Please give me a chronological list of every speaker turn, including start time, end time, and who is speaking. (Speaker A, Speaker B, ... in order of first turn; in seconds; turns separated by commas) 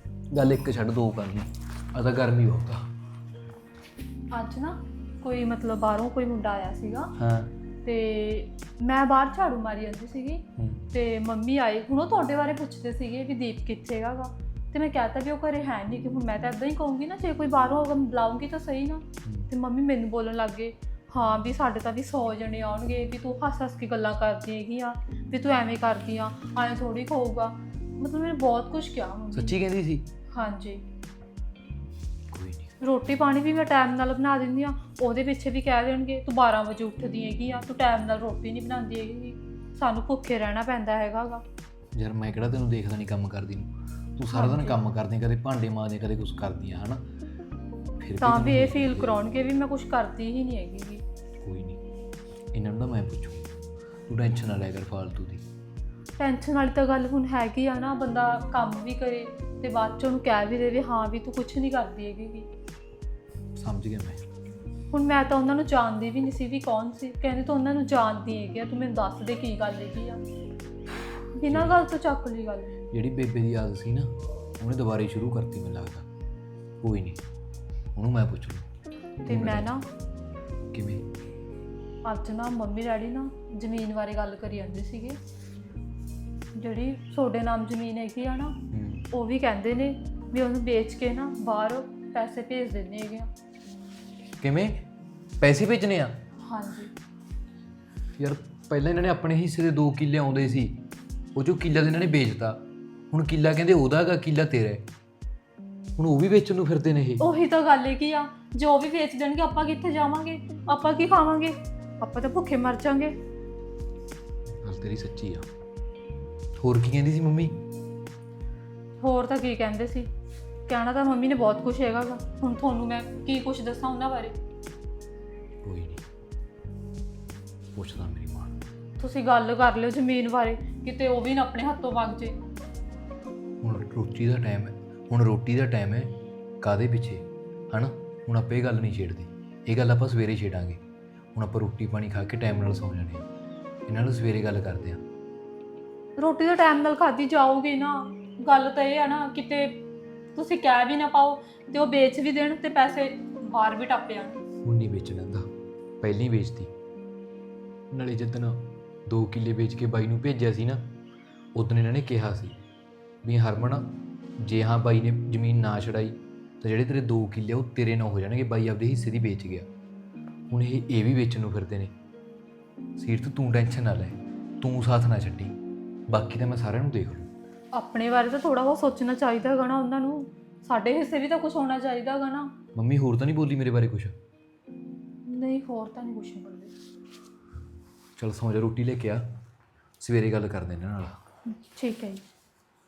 Speaker A: 0.3-2.8, Speaker B: 4.3-7.1, Speaker A: 7.2-7.5, Speaker B: 7.8-29.6, Speaker A: 10.6-10.8, Speaker A: 19.2-19.5, Speaker A: 29.3-30.0, Speaker B: 30.3-30.8, Speaker A: 32.3-32.7, Speaker B: 32.8-41.4, Speaker A: 42.0-47.0, Speaker B: 44.3-44.8, Speaker A: 48.0-49.1, Speaker B: 48.2-51.0, Speaker A: 51.4-51.8, Speaker A: 52.5-53.5, Speaker A: 54.1-55.4, Speaker B: 56.2-62.5, Speaker A: 63.5-64.2, Speaker B: 64.9-70.2, Speaker B: 71.3-72.7, Speaker A: 71.5-71.8, Speaker A: 72.9-76.0, Speaker A: 76.8-77.2, Speaker A: 77.9-78.7, Speaker B: 79.2-79.8, Speaker A: 79.3-79.7, Speaker A: 80.7-81.0, Speaker B: 82.0-85.2, Speaker B: 86.5-88.5, Speaker A: 88.7-89.0, Speaker B: 89.1-93.3, Speaker A: 94.4-94.8, Speaker A: 95.4-96.2, Speaker B: 96.4-96.9, Speaker A: 98.2-100.8, Speaker A: 101.3-104.9, Speaker A: 106.0-107.2, Speaker B: 107.2-113.2, Speaker A: 114.6-115.4, Speaker A: 116.6-117.6, Speaker B: 119.0-120.1, Speaker B: 120.7-124.3, Speaker A: 125.6-126.0, Speaker A: 127.7-128.6, Speaker B: 129.0-132.3, Speaker A: 133.6-140.8, Speaker A: 141.3-143.2, Speaker A: 143.9-145.0, Speaker B: 146.2-149.8, Speaker B: 150.3-154.4, Speaker A: 154.6-155.5, Speaker A: 156.0-156.7, Speaker A: 157.9-160.8, Speaker A: 161.5-162.6, Speaker A: 163.2-163.9, Speaker A: 164.4-169.7, Speaker A: 170.5-171.9, Speaker A: 172.9-175.5, Speaker A: 176.1-177.3, Speaker B: 177.7-182.5, Speaker A: 182.8-184.1, Speaker B: 185.2-186.7, Speaker A: 188.2-189.2, Speaker A: 190.0-191.2, Speaker B: 191.5-192.2